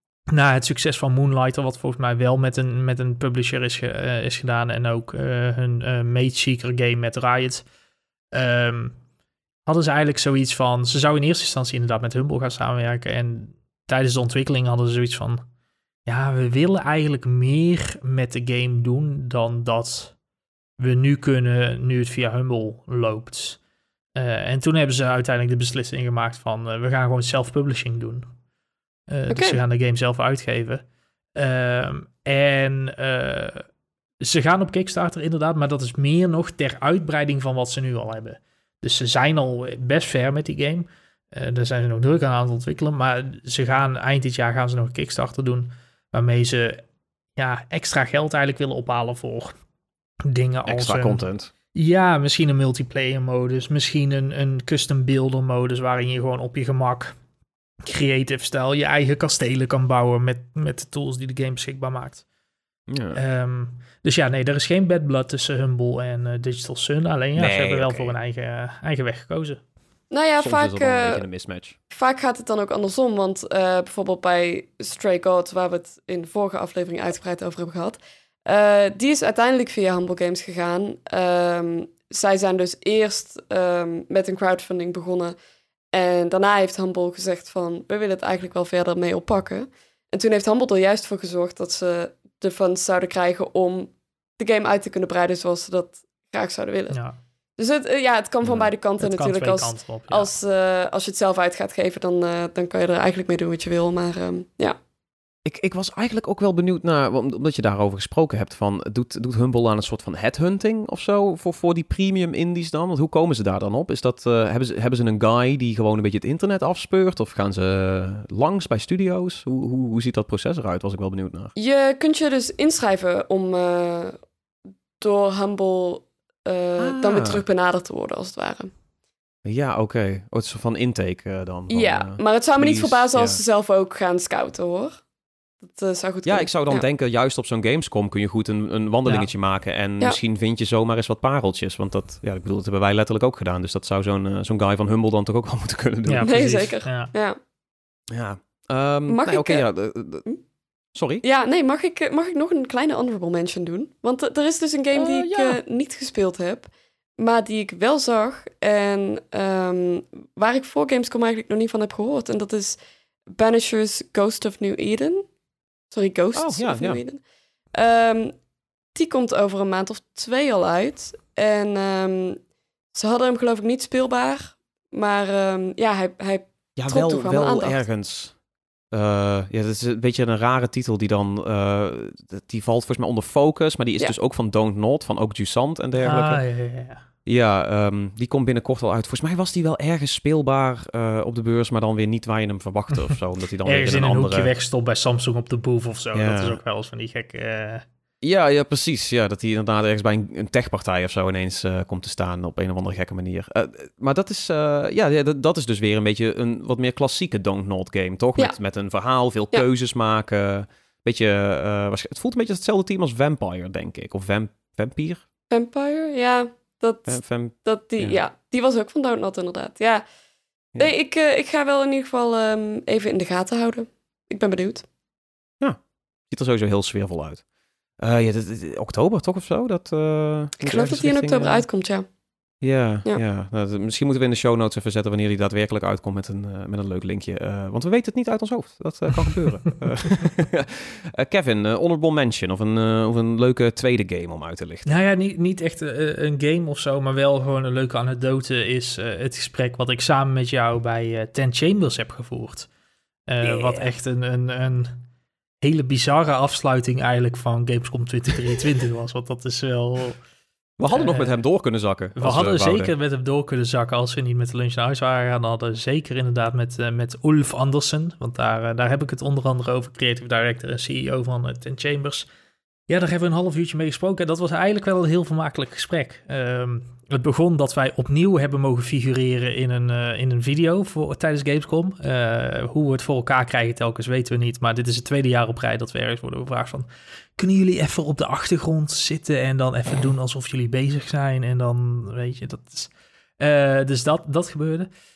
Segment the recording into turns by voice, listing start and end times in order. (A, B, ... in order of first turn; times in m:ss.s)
0:00.3-0:07.6 A
0:08.3-0:09.0 A
0:09.6-0:15.4 A
0:16.0-0:20.1 A
0:20.8-0:23.6 A
0:24.2-0:28.3 A
0:29.1-0:30.8 A
0:29.3-0:29.6 B
0:31.4-0:33.6 A
0:34.2-0:46.8 A
0:47.4-0:49.5 A
0:50.3-0:57.1 A
0:50.6-0:51.5 C
0:57.8-1:02.2 A
1:02.9-1:03.2 C
1:03.1-1:09.6 A
1:07.4-1:08.1 C
1:10.1-1:11.2 B
1:10.4-1:11.8 C
1:11.9-1:25.4 B
1:25.9-1:37.0 B
1:36.9-1:37.2 A
1:37.6-1:44.8 B
1:38.4-1:38.7 C
1:39.0-1:40.3 A
1:45.4-2:01.5 C
2:01.6-2:04.2 B
2:05.0-2:08.7 B
2:06.8-2:07.4 C
2:09.4-2:13.4 C
2:11.7-2:15.0 B
2:15.6-2:16.8 B
2:16.2-2:26.5 C
2:26.0-2:27.1 A
2:26.2-2:27.4 B
2:28.1-2:30.2 C
2:29.1-2:29.6 B
2:30.9-2:31.2 C
2:31.2-2:42.8 B
2:34.9-2:35.6 C
2:43.4-2:45.2 B
2:45.9-2:47.2 B
2:46.3-2:47.0 C
2:47.7-2:48.3 B
2:48.9-2:52.4 B
2:52.9-2:57.8 B
2:56.8-2:58.4 C
2:58.9-3:06.4 C
3:06.0-3:07.0 A
3:07.2-3:14.5 C
3:13.6-3:17.8 A
3:16.1-3:16.6 C
3:18.2-3:35.2 C
3:35.5-3:40.0 B
3:37.1-3:38.2 C
3:40.8-3:44.8 B
3:46.3-3:47.4 C
3:48.0-3:51.7 C
3:50.6-3:52.1 B
3:52.6-4:05.0 C
4:04.8-4:12.7 A
4:13.3-4:15.0 A
4:13.4-4:13.9 C
4:15.6-4:20.2 A
4:20.8-4:22.9 C
4:20.8-4:21.3 A
4:22.1-4:32.3 A
4:32.9-4:54.9 A